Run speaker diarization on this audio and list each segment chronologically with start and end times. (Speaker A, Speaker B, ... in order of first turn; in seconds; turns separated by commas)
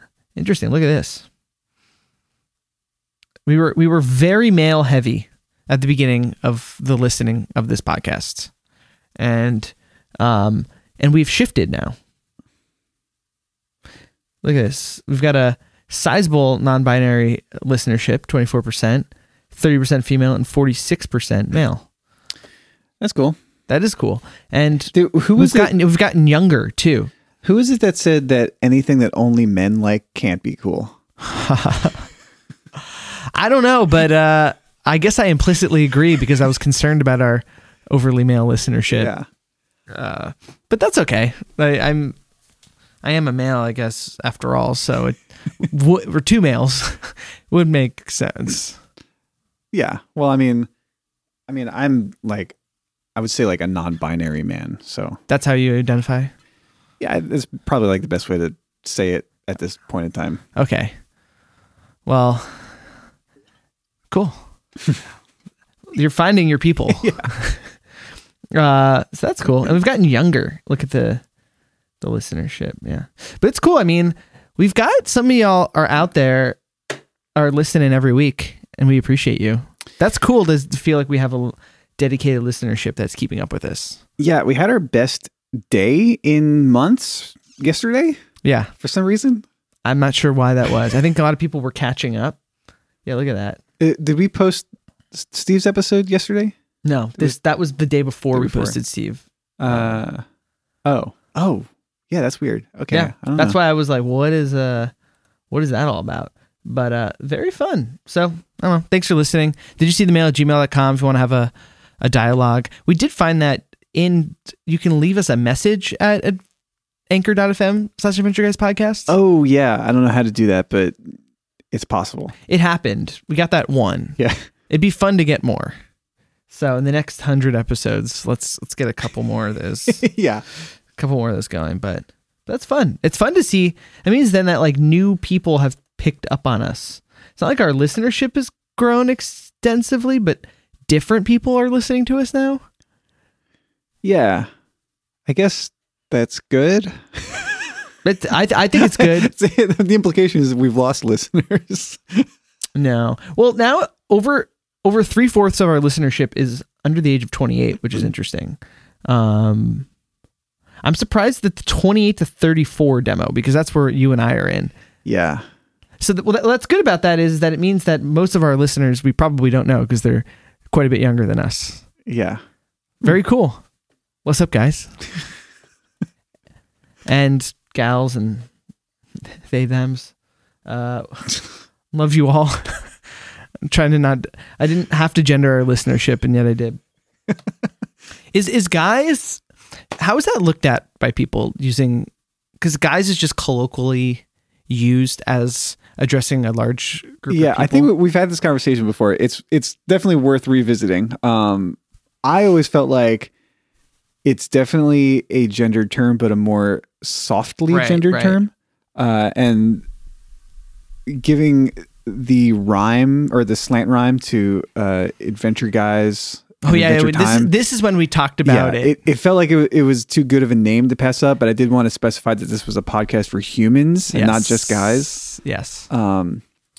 Speaker A: 0.3-1.3, Speaker A: 3.5-8.5, Speaker A: 9.2-11.9, Speaker A: 14.4-21.9, Speaker B: 23.0-23.4, Speaker A: 23.7-27.1, Speaker B: 24.9-25.7, Speaker B: 27.4-30.9, Speaker A: 31.2-32.1, Speaker A: 32.8-39.1, Speaker B: 38.9-39.2, Speaker A: 39.9-42.2, Speaker A: 43.0-48.8, Speaker B: 49.7-50.7, Speaker B: 51.5-52.6, Speaker B: 53.1-55.2, Speaker A: 55.3-56.3, Speaker B: 57.0-60.4, Speaker A: 60.5-60.9, Speaker A: 62.1-62.9, Speaker A: 64.1-64.5, Speaker A: 65.9-67.8, Speaker B: 67.0-67.3, Speaker A: 68.5-71.2, Speaker A: 72.0-76.6, Speaker A: 77.4-84.0, Speaker B: 84.2-88.2, Speaker A: 88.4-88.7, Speaker B: 88.8-89.4, Speaker A: 89.8-92.4, Speaker A: 93.0-93.6, Speaker B: 93.8-96.6, Speaker A: 96.8-100.0, Speaker B: 98.3-98.8, Speaker B: 99.6-100.2, Speaker B: 100.8-103.5, Speaker A: 102.9-104.9, Speaker A: 105.5-116.4, Speaker A: 117.1-119.1, Speaker B: 119.1-121.2, Speaker B: 121.7-122.3, Speaker A: 122.5-125.8, Speaker B: 124.2-124.4, Speaker A: 126.5-130.1, Speaker B: 129.9-130.4, Speaker A: 130.9-142.6, Speaker B: 144.0-144.5, Speaker B: 145.2-147.8, Speaker A: 148.1-149.3, Speaker B: 148.7-152.3, Speaker A: 152.8-159.9, Speaker A: 160.8-164.7, Speaker B: 165.1-165.4, Speaker A: 166.0-171.9, Speaker B: 172.1-172.4, Speaker A: 173.0-173.7, Speaker A: 174.2-175.1, Speaker A: 177.1-178.5, Speaker A: 179.3-186.8, Speaker A: 188.3-189.4, Speaker A: 190.0-197.9, Speaker B: 197.3-203.3, Speaker B: 204.2-209.8, Speaker A: 207.7-208.4, Speaker B: 211.1-217.5, Speaker A: 216.6-218.9, Speaker B: 218.4-225.2, Speaker A: 224.1-225.9, Speaker B: 225.9-226.4